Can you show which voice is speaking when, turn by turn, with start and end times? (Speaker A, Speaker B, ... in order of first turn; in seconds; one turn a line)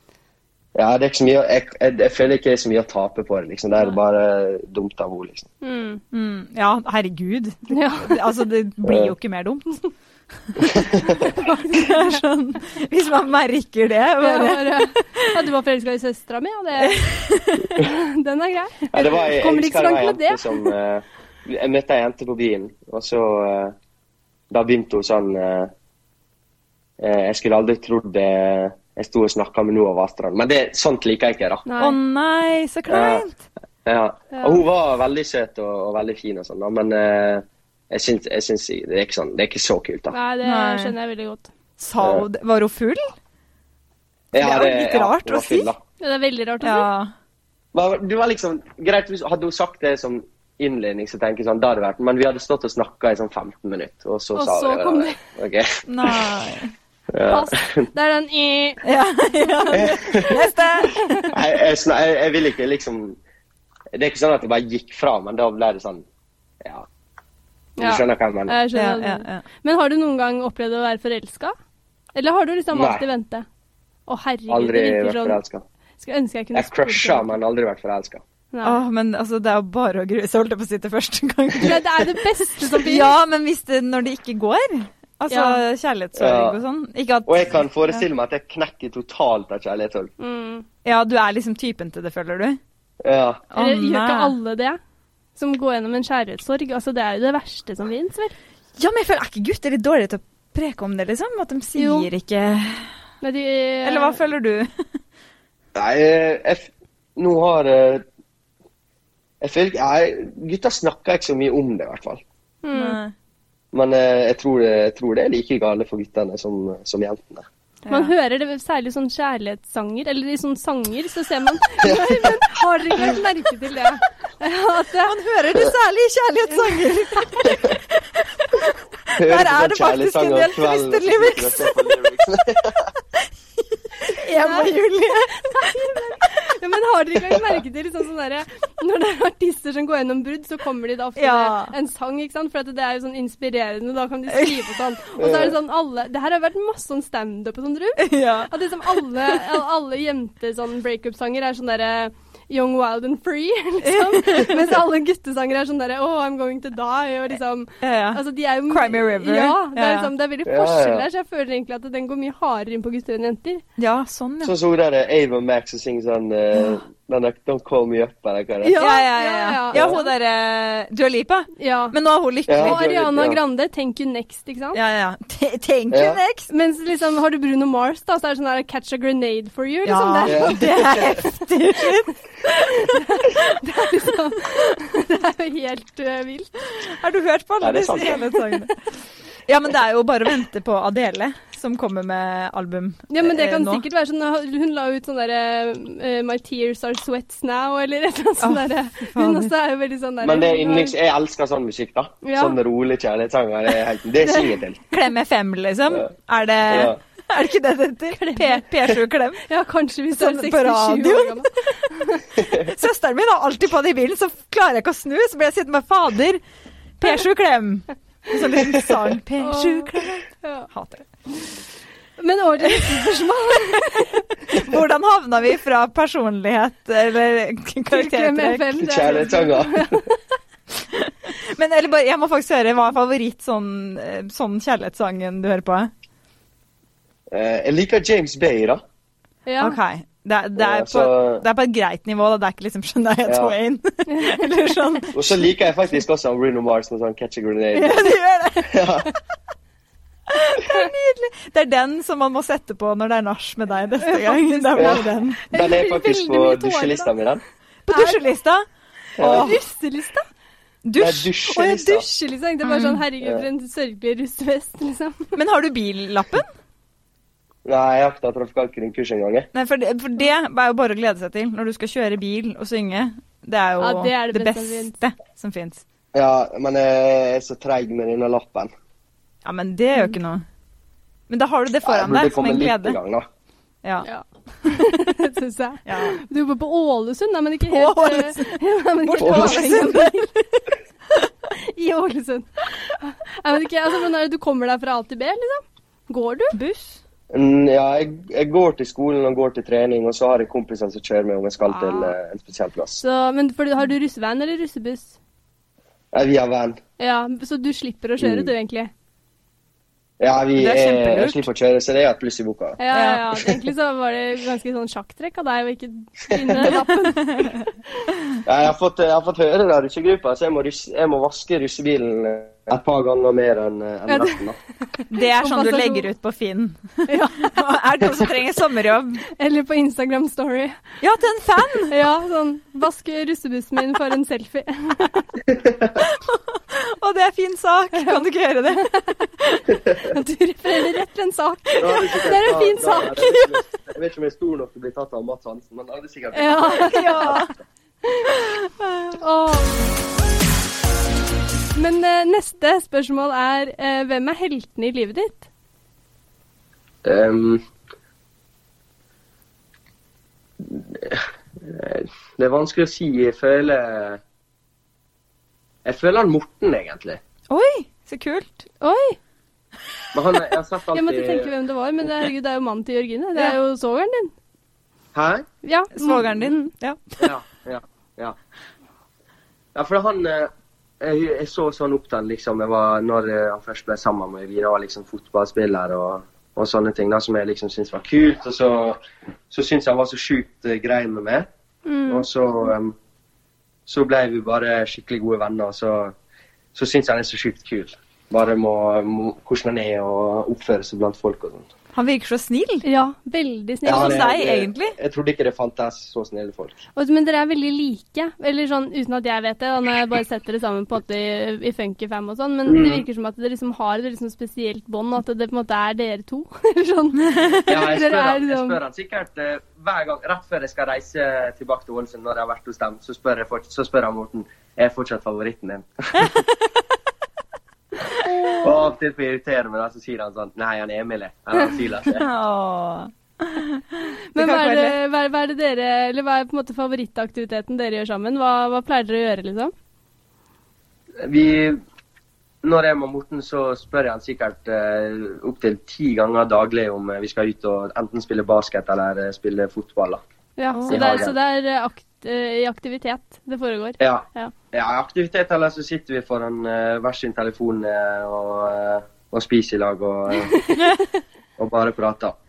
Speaker A: 0.8-5.5
Speaker B: 5.6-6.0
Speaker C: 6.1-9.8
Speaker B: 7.7-8.2
Speaker A: 8.8-9.1
Speaker C: 10.6-15.3
Speaker A: 10.6-11.3
Speaker B: 11.2-12.2
Speaker B: 14.2-17.1
Speaker C: 16.8-17.8
Speaker B: 17.7-20.7
Speaker A: 18.9-23.7
Speaker A: 24.5-25.7
Speaker A: 27.0-31.6
Speaker B: 31.6-31.9
Speaker C: 31.8-33.4
Speaker A: 32.9-33.2
Speaker A: 33.8-40.1
Speaker B: 34.3-34.6
Speaker B: 40.1-41.5
Speaker C: 40.4-40.9
Speaker C: 41.8-43.1
Speaker A: 44.3-45.8
Speaker C: 44.3-45.7
Speaker B: 46.0-46.9
Speaker C: 46.6-47.1
Speaker A: 47.7-56.2
Speaker B: 54.3-55.2
Speaker C: 55.9-56.7
Speaker A: 57.1-57.9
Speaker B: 57.2-58.8
Speaker C: 58.8-61.0
Speaker A: 59.7-60.4
Speaker B: 60.8-61.3
Speaker A: 61.3-63.2
Speaker A: 63.9-66.0
Speaker A: 66.6-66.9
Speaker A: 67.8-68.6
Speaker B: 67.8-71.5
Speaker C: 68.7-69.4
Speaker B: 72.1-73.5
Speaker A: 72.7-73.0
Speaker B: 74.1-75.4
Speaker A: 74.5-75.6
Speaker B: 76.0-77.3
Speaker A: 76.5-78.2
Speaker B: 78.5-78.8
Speaker C: 78.6-82.1
Speaker B: 81.6-83.2
Speaker C: 82.7-88.0
Speaker B: 85.3-85.6
Speaker A: 86.2-86.6
Speaker A: 87.3-90.1
Speaker B: 90.2-90.6
Speaker C: 90.8-92.6
Speaker A: 93.0-93.4
Speaker C: 93.5-94.3
Speaker B: 93.5-94.8
Speaker B: 95.4-98.3
Speaker C: 98.8-102.9
Speaker B: 101.8-102.1
Speaker B: 103.2-104.2
Speaker C: 103.8-104.8
Speaker A: 105.7-108.0
Speaker A: 109.4-112.2
Speaker B: 112.6-113.0
Speaker C: 112.7-113.1
Speaker A: 113.7-117.5
Speaker C: 117.8-118.1
Speaker B: 117.9-125.2
Speaker A: 121.8-122.3
Speaker C: 125.0-131.9
Speaker B: 126.5-127.5
Speaker A: 127.5-127.7
Speaker A: 129.2-132.9
Speaker C: 134.0-136.2
Speaker B: 134.4-134.7
Speaker B: 135.5-163.6
Speaker C: 141.2-141.7
Speaker C: 144.3-144.7
Speaker A: 145.2-145.6
Speaker C: 148.0-149.5
Speaker C: 153.8-154.7
Speaker C: 157.8-160.1
Speaker A: 160.4-161.1
Speaker C: 163.8-164.5
Speaker A: 164.4-168.8
Speaker B: 168.7-170.1
Speaker C: 168.7-172.8
Speaker A: 169.7-170.0
Speaker B: 171.6-171.9
Speaker A: 172.5-173.4
Speaker B: 172.6-174.8
Speaker C: 174.7-176.5
Speaker A: 175.9-176.2
Speaker B: 176.5-181.9
Speaker C: 179.8-183.5
Speaker A: 180.2-181.1
Speaker B: 182.5-186.5
Speaker C: 186.8-188.7
Speaker A: 187.6-188.2
Speaker C: 189.5-193.8
Speaker B: 193.1-200.9
Speaker C: 198.4-199.5
Speaker A: 200.2-204.8
Speaker B: 202.2-202.6
Speaker B: 204.2-204.5
Speaker C: 204.9-209.4
Speaker A: 206.7-207.0
Speaker B: 208.2-208.7
Speaker B: 209.4-212.2
Speaker C: 210.1-211.5
Speaker C: 212.4-216.4
Speaker C: 217.0-221.1
Speaker B: 219.4-220.7
Speaker B: 222.2-224.2
Speaker C: 222.7-223.0
Speaker C: 224.5-228.8
Speaker B: 227.9-230.2
Speaker A: 228.8-230.0
Speaker C: 230.8-235.9
Speaker A: 237.3-238.8
Speaker B: 239.4-239.8
Speaker C: 239.6-245.2
Speaker A: 240.6-241.4
Speaker A: 243.2-243.5
Speaker B: 244.1-244.4
Speaker A: 245.1-249.1
Speaker C: 247.7-248.8
Speaker C: 250.3-255.4
Speaker B: 254.0-257.1
Speaker A: 254.8-257.4
Speaker C: 257.9-258.6
Speaker B: 257.9-258.2
Speaker A: 259.2-259.5
Speaker C: 259.2-259.6
Speaker B: 259.2-260.2
Speaker C: 260.8-261.8
Speaker A: 261.0-262.1
Speaker B: 261.6-265.3
Speaker C: 262.6-263.0
Speaker C: 265.3-266.5
Speaker A: 267.6-269.5
Speaker C: 269.5-275.8
Speaker B: 273.8-274.9
Speaker A: 276.1-278.7
Speaker C: 279.4-280.4
Speaker C: 281.3-283.0
Speaker A: 281.8-283.3
Speaker B: 284.0-290.3
Speaker C: 285.9-286.2
Speaker C: 287.7-290.2
Speaker A: 289.2-289.7
Speaker B: 291.5-296.5
Speaker C: 296.5-297.0
Speaker A: 297.3-303.0
Speaker C: 301.7-302.1
Speaker B: 303.0-305.1
Speaker A: 306.1-306.8
Speaker B: 307.0-308.9
Speaker A: 308.2-308.5
Speaker A: 310.2-312.8
Speaker C: 310.6-311.5
Speaker B: 312.8-317.6
Speaker C: 312.9-313.2
Speaker A: 316.3-316.7
Speaker C: 316.6-317.6
Speaker A: 318.4-324.6
Speaker B: 324.1-326.1
Speaker C: 325.1-329.2
Speaker B: 327.1-327.6
Speaker B: 329.4-330.8
Speaker C: 331.0-331.9
Speaker B: 331.9-335.3
Speaker C: 336.0-339.6
Speaker B: 340.0-343.5
Speaker A: 341.8-347.0
Speaker B: 346.3-347.4
Speaker C: 346.7-347.5
Speaker B: 348.1-348.4
Speaker C: 348.3-348.9
Speaker B: 349.2-349.7
Speaker B: 351.7-355.5
Speaker A: 357.0-357.6
Speaker A: 360.6-364.2
Speaker A: 365.8-367.2
Speaker C: 367.5-368.6
Speaker B: 368.8-369.2
Speaker A: 370.1-371.5
Speaker B: 370.9-374.3
Speaker A: 375.1-375.5
Speaker B: 375.6-376.7
Speaker C: 375.9-377.3
Speaker A: 377.2-378.4
Speaker A: 379.7-389.0
Speaker A: 389.5-391.5
Speaker B: 391.9-392.2
Speaker A: 392.1-392.9
Speaker A: 393.9-396.1
Speaker A: 396.7-401.7
Speaker C: 401.9-402.8
Speaker B: 402.8-404.3
Speaker A: 403.8-406.8
Speaker C: 403.9-404.9
Speaker B: 406.9-418.8
Speaker A: 412.7-413.0
Speaker C: 417.3-417.6
Speaker A: 417.7-426.4
Speaker C: 428.2-428.7
Speaker A: 428.6-432.2
Speaker C: 432.1-434.9
Speaker B: 434.3-439.7
Speaker A: 441.2-441.8
Speaker A: 442.6-450.2
Speaker B: 450.6-454.5
Speaker C: 450.7-451.2
Speaker A: 450.9-451.4
Speaker A: 454.0-460.6
Speaker B: 460.5-460.8
Speaker A: 461.6-462.3